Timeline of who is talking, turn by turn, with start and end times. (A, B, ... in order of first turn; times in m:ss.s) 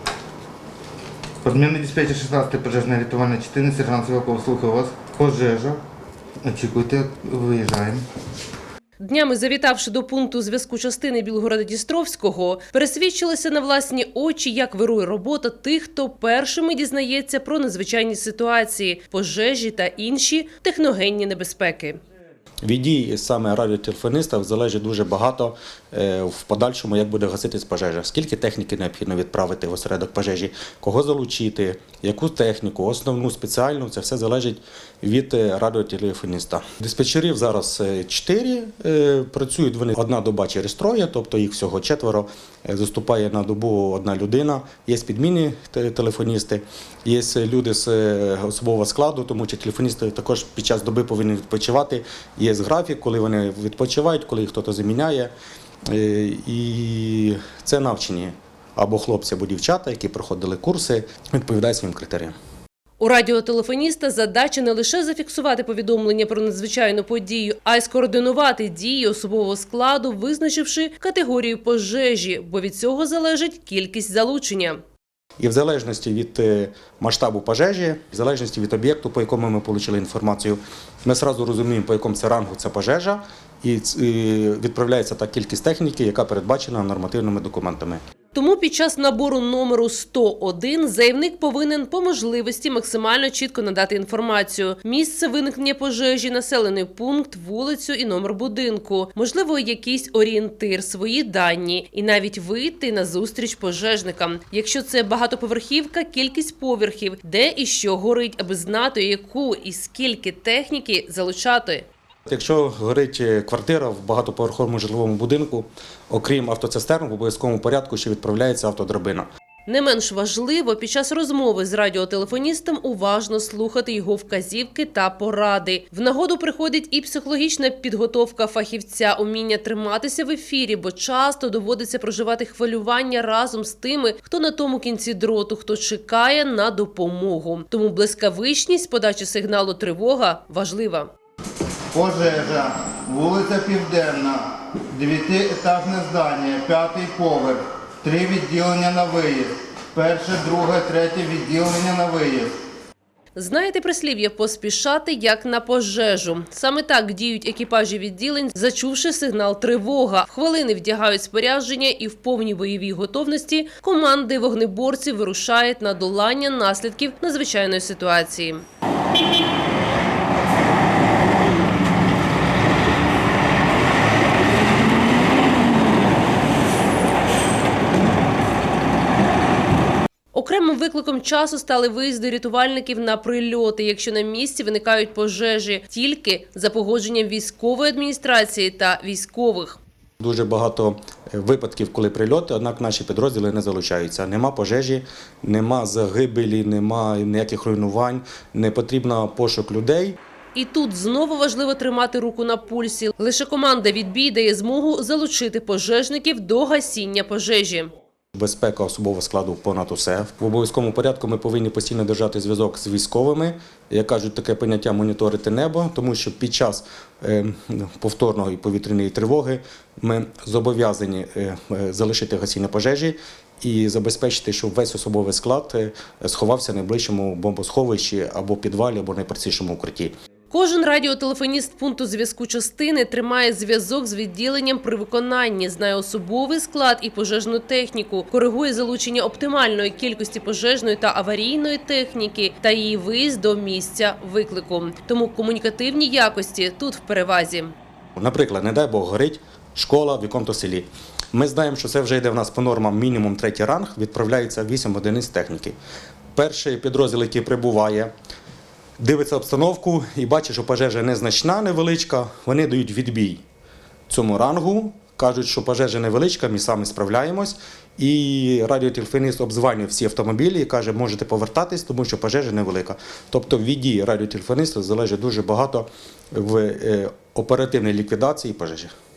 0:01.4-0:05.8 A
0:06.4-0:08.0 A
0:09.0-0:22.0 B
0:22.6-0:55.3 C
0:55.9-1:02.3 C
1:03.0-1:14.8 B
1:15.4-1:28.0 C
1:28.3-1:51.9 B
1:52.3-1:59.3 C
1:59.7-2:21.1 B
2:21.9-2:32.6 A
2:33.3-2:48.6 B
3:00.3-3:09.8 B
3:10.2-3:20.2 C
3:20.5-3:27.9 B
3:28.3-3:50.1 C
3:50.5-4:07.7 B
4:08.2-4:15.8 C
4:16.3-4:18.1 C
4:19.0-4:23.4 C
4:24.1-4:38.9 C